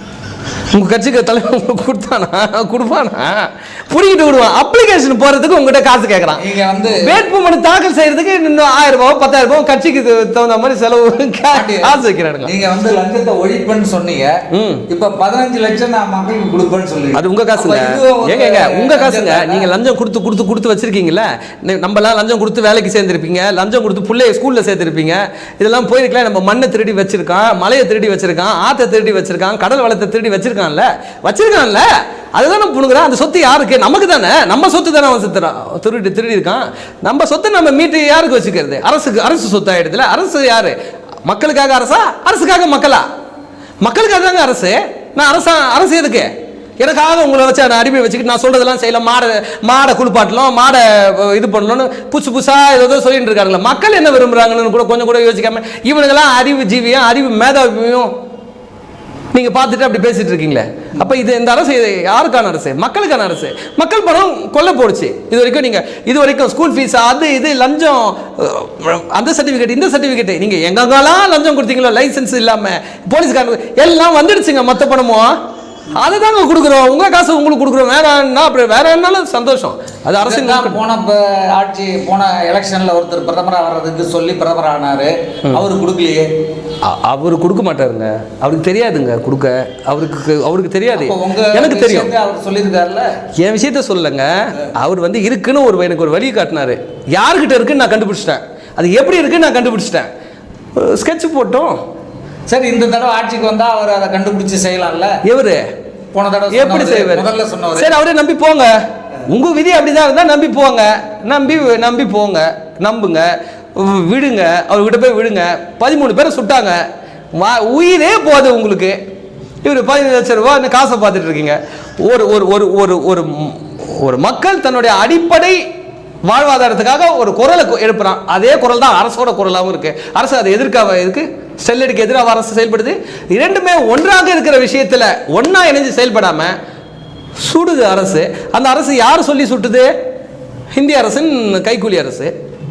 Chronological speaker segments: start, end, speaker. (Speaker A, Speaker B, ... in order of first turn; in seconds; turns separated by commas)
Speaker A: 0.7-12.5, Speaker B: 6.4-7.2, Speaker B: 11.5-14.3, Speaker A: 14.5-14.8, Speaker B: 14.9-19.7, Speaker A: 17.1-43.0, Speaker A: 43.8-58.1, Speaker A: 59.3-75.4, Speaker A: 76.0-80.8, Speaker B: 80.2-86.3, Speaker A: 86.8-92.1, Speaker B: 90.9-93.1, Speaker A: 93.4-100.1, Speaker A: 100.8-101.8, Speaker B: 102.5-105.2, Speaker A: 105.2-105.7, Speaker B: 106.1-107.9, Speaker A: 106.5-108.8, Speaker A: 109.3-116.8, Speaker A: 117.3-119.0, Speaker A: 119.6-125.6, Speaker A: 126.3-136.6, Speaker A: 137.4-139.9, Speaker A: 140.8-142.3